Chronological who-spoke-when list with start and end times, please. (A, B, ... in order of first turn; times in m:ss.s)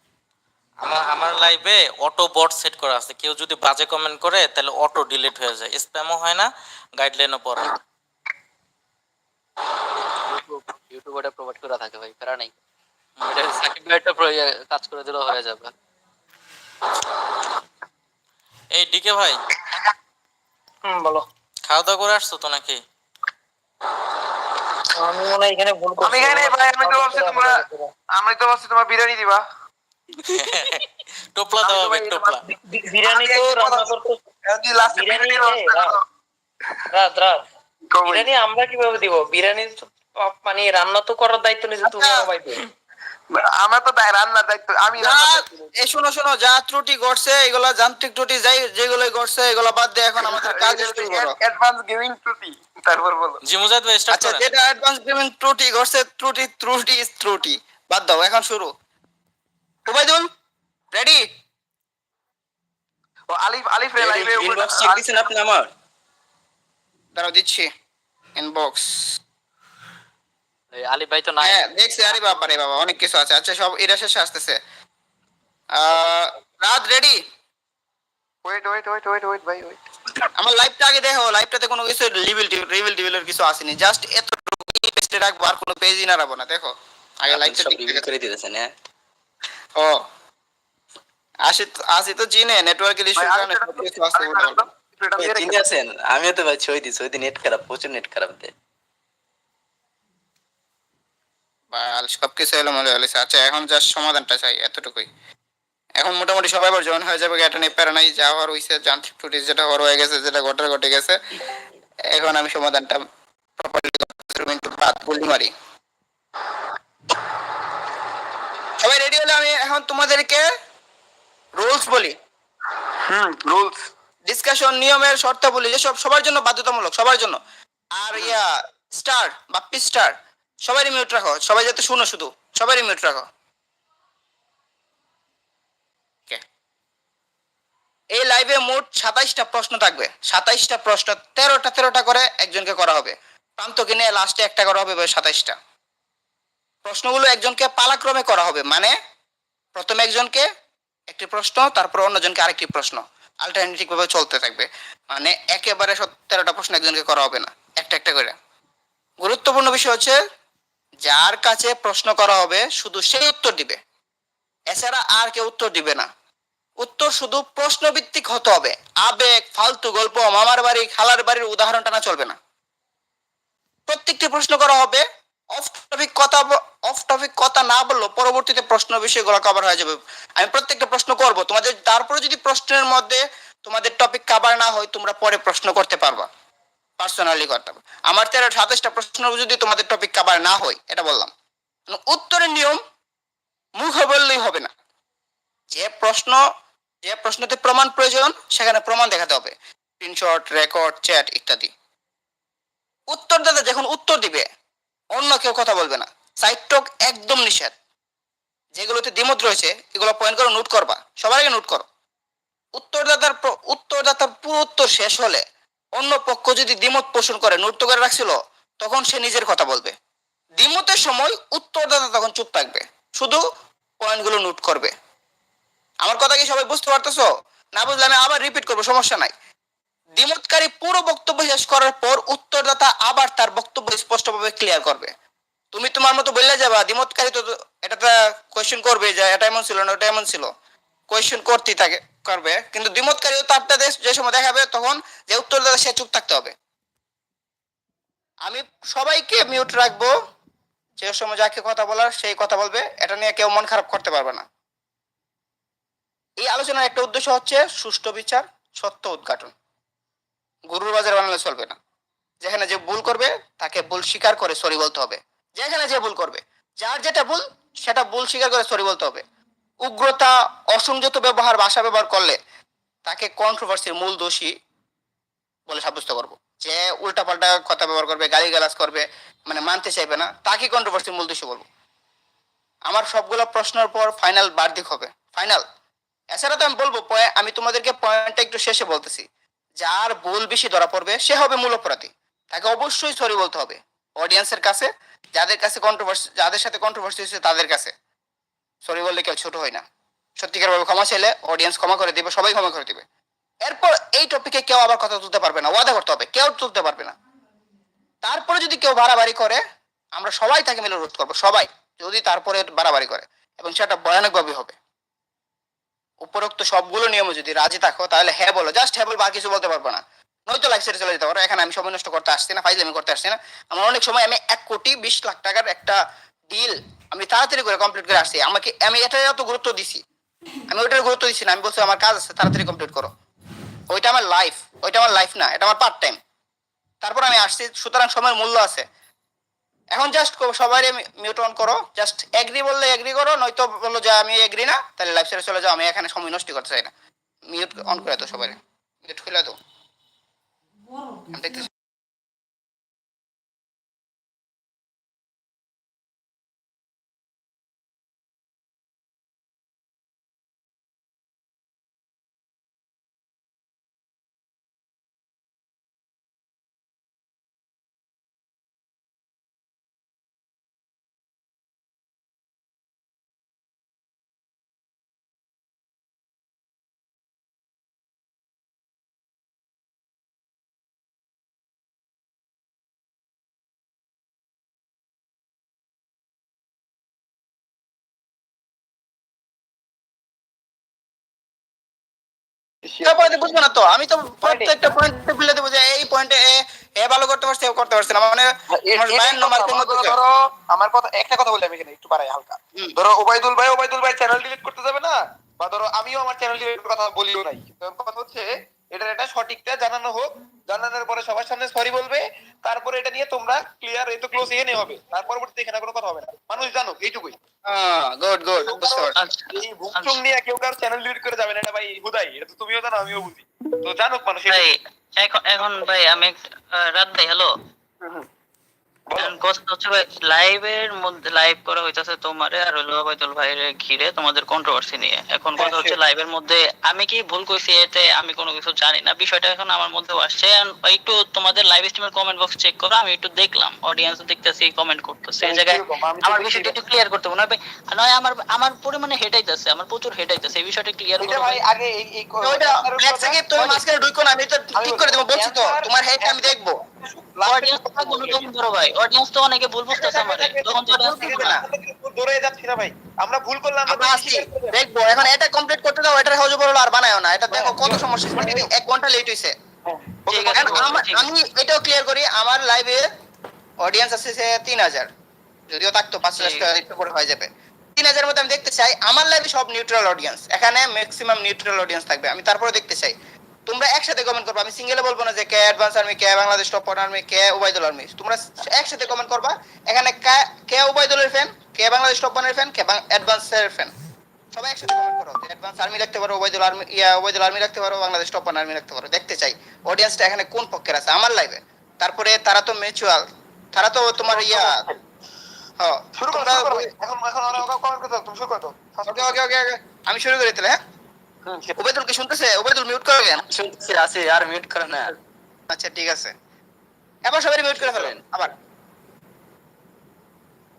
0:00.8-0:07.8 A
0:10.2-0:12.5 B
0:13.2-0:15.7 B
0:18.7-0:19.4 A
0:20.8-0:21.2 C
0:21.6-0:22.8 A
0:25.0-0:27.9 C
0:26.0-0:29.4 D
0:30.3-0:30.8 A
0:31.3-0:32.4 A
0:31.6-0:32.4 D
0:32.5-0:34.2 C
0:33.0-0:34.0 D
0:34.5-0:36.0 D
0:34.8-0:36.0 C
0:36.9-0:37.4 C
0:37.9-0:38.3 D
0:38.1-0:42.6 C
0:41.9-0:42.3 E
0:43.3-0:45.7 D
0:45.0-0:51.3 E
0:50.2-0:53.4 D
0:53.4-0:54.5 A
0:54.1-0:58.7 E
0:59.8-1:00.3 E
1:00.9-1:01.2 E
1:03.3-1:05.2 D
1:04.0-1:05.6 F
1:05.3-1:05.6 E
1:07.1-1:07.7 E
1:08.4-1:09.1 E
1:10.7-1:11.6 B
1:11.4-1:14.6 E
1:15.8-1:17.2 E
1:18.4-1:19.8 D
1:20.4-1:28.1 E
1:27.3-1:28.7 F
1:31.5-1:34.6 E
1:33.2-1:35.6 D
1:35.2-1:38.5 F
1:41.7-1:45.1 E
1:46.0-1:51.2 E
1:52.1-1:53.0 E
1:53.6-1:55.5 E
1:58.8-2:00.4 E
2:01.6-2:02.1 E
2:03.1-2:03.7 D
2:04.3-2:07.4 E
2:08.0-2:08.5 E
2:09.0-2:10.1 E
2:10.7-2:13.2 E
2:18.1-2:25.6 E
2:26.8-2:28.9 E
2:29.7-2:30.4 E
2:31.1-2:38.4 E
2:39.2-2:40.2 E
2:41.0-2:43.8 E
2:44.7-2:46.1 E
2:46.8-2:52.4 E
2:53.9-2:55.0 E
2:55.5-3:06.3 E
3:07.0-3:11.3 E
3:11.9-3:12.8 E
3:13.8-3:14.7 E
3:15.7-3:16.4 E
3:17.0-3:21.7 E
3:23.1-3:24.4 E
3:25.1-3:27.7 E
3:28.7-3:31.8 E
3:32.8-3:35.4 E
3:36.0-3:39.9 E
3:40.6-3:43.4 E
3:44.0-3:44.9 E
3:46.0-3:49.3 E
3:50.2-3:55.1 E
3:55.7-4:00.5 E
4:01.1-4:06.5 E
4:08.4-4:10.1 E
4:11.0-4:14.4 E
4:16.4-4:19.5 E
4:20.7-4:21.8 E
4:22.4-4:29.2 E
4:29.8-4:32.4 E
4:33.0-4:34.5 E
4:35.7-4:41.6 E
4:42.9-4:45.6 E
4:46.3-4:49.2 E
4:49.8-4:57.9 E
4:58.8-4:59.8 E
5:00.4-5:03.0 E
5:03.6-5:07.1 E
5:08.2-5:09.6 E
5:10.1-5:14.8 E
5:16.2-5:26.0 E
5:26.5-5:30.0 E
5:30.7-5:33.1 E
5:33.9-5:36.2 E
5:37.0-5:38.8 E
5:39.9-5:46.9 E
5:47.5-5:49.6 E
5:51.3-5:51.7 E
6:32.8-6:33.2 D
6:33.0-6:40.2 E
6:34.4-6:34.8 D
6:38.7-6:57.3 D
6:57.7-6:59.1 E
6:58.6-7:04.7 D
6:59.2-7:00.2 G
7:04.5-7:06.4 G
7:05.6-7:05.9 D
7:06.9-7:07.5 G
7:09.1-7:09.4 D
7:09.2-7:31.6 G
7:15.6-7:16.0 D
7:25.4-7:26.7 D
7:31.2-7:33.8 D
7:32.4-7:36.8 E
7:34.8-7:38.5 D
7:37.6-7:41.5 G
7:39.9-7:45.2 D
7:41.0-7:41.6 E
7:43.9-7:49.5 E
7:47.5-7:48.7 D
7:49.8-7:51.0 D
7:50.3-7:51.3 G
7:50.5-7:53.0 E
7:53.8-7:55.1 E
7:55.7-8:03.1 E
7:56.4-7:56.7 G
8:03.6-8:13.9 E
8:14.5-8:23.2 E
8:23.7-8:24.7 E
8:24.2-8:25.0 D
8:25.8-8:26.9 E
8:26.2-8:29.4 D
8:29.1-8:30.8 E
8:31.4-8:31.7 D
8:31.8-8:33.4 E
8:33.5-8:35.2 F
8:35.7-8:36.3 E
8:37.3-8:38.5 E
8:37.9-8:38.2 F